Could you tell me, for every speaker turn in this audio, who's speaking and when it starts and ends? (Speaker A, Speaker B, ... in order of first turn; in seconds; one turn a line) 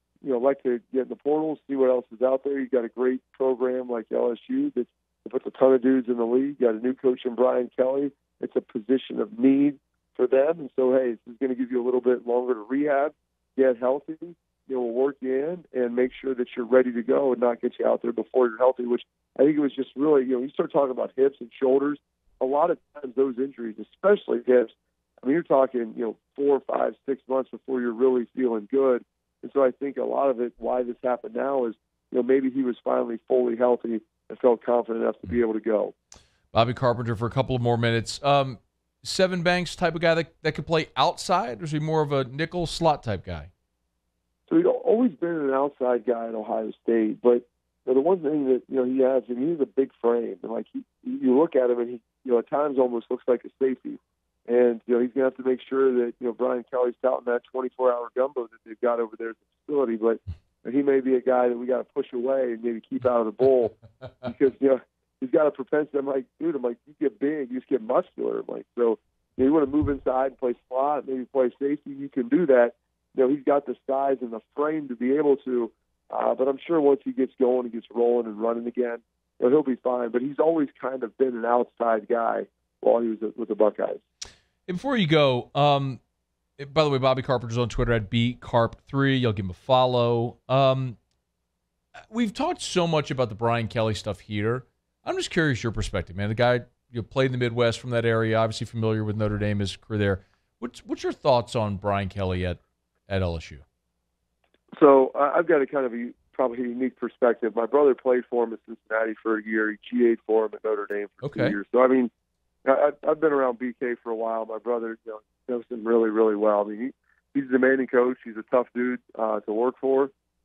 Speaker A: 0.2-35.9
Speaker B: 36.5-43.5
Speaker A: 44.5-84.0
Speaker B: 84.7-86.0
Speaker B: 86.6-91.0
Speaker B: 92.1-103.6
Speaker A: 104.7-112.1
Speaker B: 111.2-111.5
Speaker A: 112.6-120.1